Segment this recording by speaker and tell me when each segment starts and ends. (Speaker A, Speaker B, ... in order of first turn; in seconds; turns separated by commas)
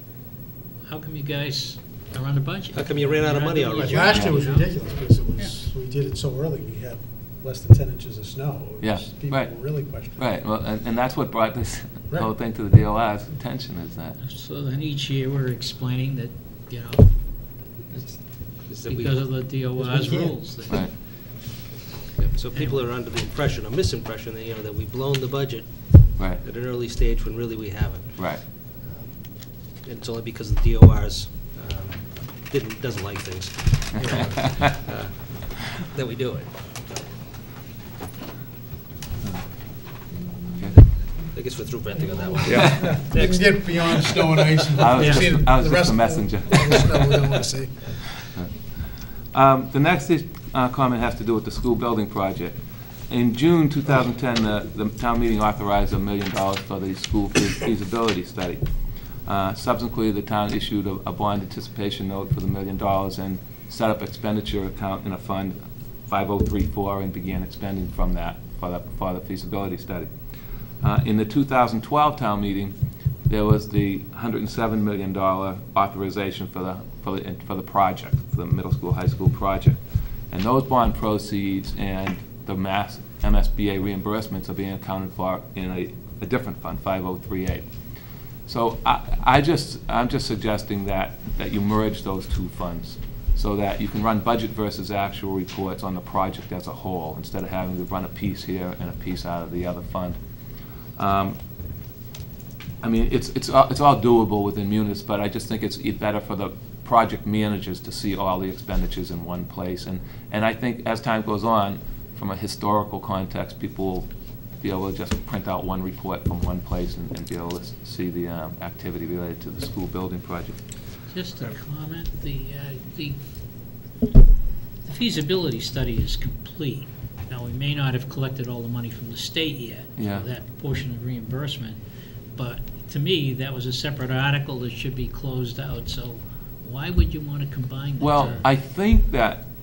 Speaker A: 0.8-4.7, Speaker B: 2.7-4.2, Speaker C: 3.8-10.3, Speaker D: 4.1-4.4, Speaker D: 8.8-14.2, Speaker A: 14.2-20.9, Speaker B: 18.6-20.2, Speaker D: 20.7-20.9, Speaker B: 22.2-37.1, Speaker D: 26.1-26.4, Speaker D: 28.1-28.4, Speaker D: 34.0-34.7, Speaker B: 41.3-43.6, Speaker D: 42.5-43.0, Speaker C: 42.5-48.2, Speaker D: 44.8-47.4, Speaker A: 45.0-45.2, Speaker D: 49.3-52.6, Speaker D: 53.1-58.6, Speaker D: 59.2-70.1, Speaker D: 70.8-72.7, Speaker D: 73.3-79.8, Speaker D: 80.3-87.6, Speaker D: 88.5-100.2, Speaker D: 101.0-101.4, Speaker D: 102.8-114.1, Speaker D: 114.6-120.6, Speaker A: 121.1-123.2, Speaker A: 124.8-131.8, Speaker D: 130.0-130.3, Speaker A: 132.3-138.5, Speaker D: 138.0-139.4